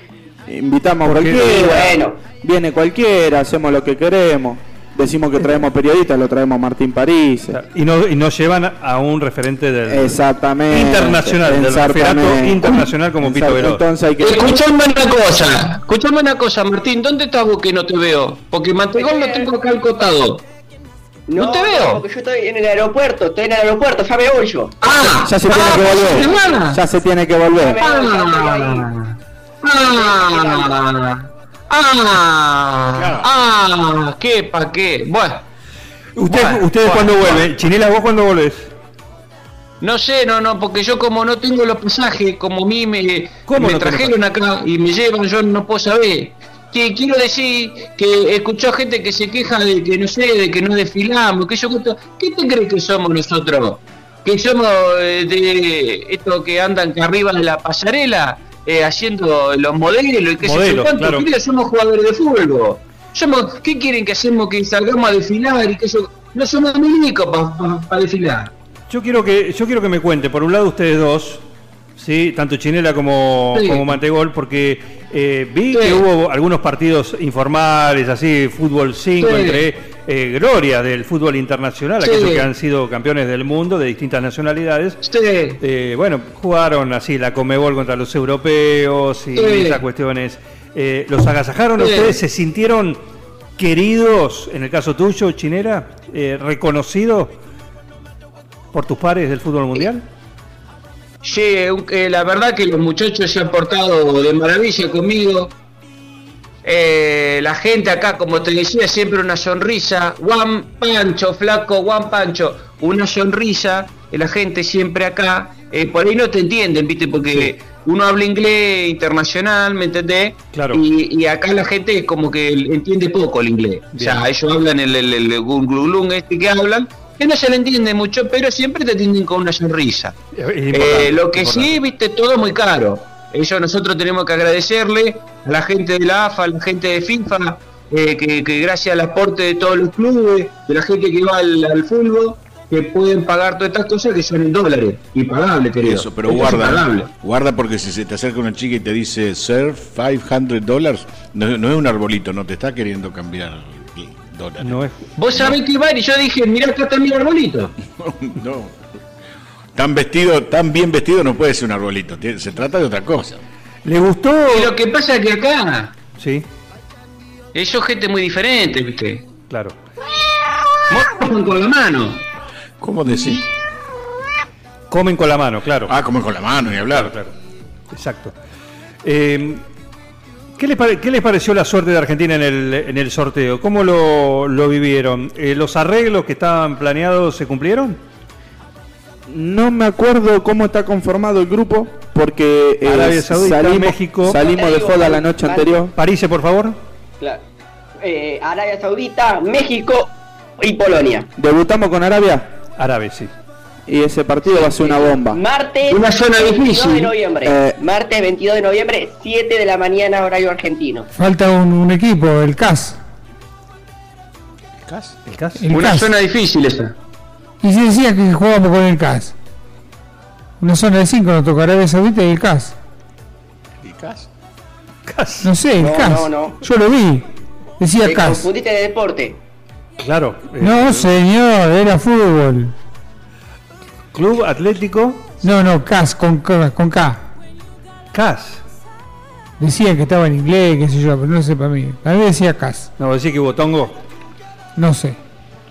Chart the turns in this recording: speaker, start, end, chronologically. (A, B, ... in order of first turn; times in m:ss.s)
0:00.5-0:07.6 A
0:01.0-0:01.6 B
0:01.3-0:02.2 C
0:07.5-0:13.8 B
0:09.9-0:14.6 A
0:14.2-0:20.4 D
0:19.0-0:19.5 C
0:21.3-0:24.8 C
0:21.4-0:22.0 D
0:24.8-0:26.8 D
0:25.2-0:27.8 A
0:25.5-0:26.6 C
0:27.6-0:28.9 C
0:27.8-0:35.4 D
0:29.8-0:30.7 C
0:32.9-0:33.3 E
0:36.2-0:38.7 B
0:36.2-0:37.5 D
0:39.8-1:08.5 D
0:43.5-0:44.1 B
1:00.4-1:01.3 B
1:08.9-1:11.4 B
1:12.0-1:25.0 B
1:13.5-1:13.8 D
1:15.7-1:16.0 D
1:19.2-1:19.6 D
1:22.0-1:22.5 D
1:25.0-1:25.6 D
1:25.6-1:33.0 B
1:29.4-1:29.8 D
1:31.8-1:32.2 D
1:33.6-1:37.4 B
1:38.7-1:40.0 B
1:41.2-1:45.5 D
1:46.6-2:10.2 D
2:00.5-2:00.8 B
2:03.9-2:04.2 B
2:10.4-2:11.8 B
2:10.7-2:27.1 D
2:25.8-2:34.8 E
2:34.6-2:35.0 B
2:35.2-2:37.7 D
2:38.0-2:38.7 E
2:39.8-2:43.4 E
2:43.8-2:44.7 B
2:44.5-2:45.9 D
2:46.2-2:46.4 B
2:47.5-2:49.2 D
2:49.5-2:49.7 B
2:50.9-2:52.2 D
2:52.8-2:53.4 E
2:54.9-2:55.9 B
2:55.9-2:57.1 E
2:56.9-2:57.3 B
2:57.9-2:58.3 B
2:59.0-2:59.6 B
3:00.6-3:08.0 B
3:09.3-3:15.9 A
3:12.8-3:14.4 B
3:14.4-3:15.8 C
3:15.9-3:16.8 B
3:18.0-3:21.3 C
3:21.4-3:22.5 A
3:22.8-3:23.3 B
3:23.9-3:25.4 A
3:24.5-3:31.1 C
3:25.9-3:27.1 D
3:27.4-3:27.8 A
3:31.1-3:33.0 F
3:34.9-3:35.6 B
3:35.6-3:36.1 F
3:35.7-3:36.9 D
3:37.6-3:39.3 F
3:40.6-3:42.8 F
3:43.8-3:44.2 E
3:45.1-3:45.5 B
3:45.4-3:47.2 F
3:45.8-3:46.6 C
3:47.8-3:48.5 F
3:48.0-3:49.4 C
3:50.0-3:51.1 B
3:50.6-3:52.7 F
3:54.1-3:55.4 B
3:55.4-3:57.2 F
3:58.1-3:58.6 B
3:59.6-4:02.9 F
4:03.0-4:04.0 B
4:04.8-4:05.2 F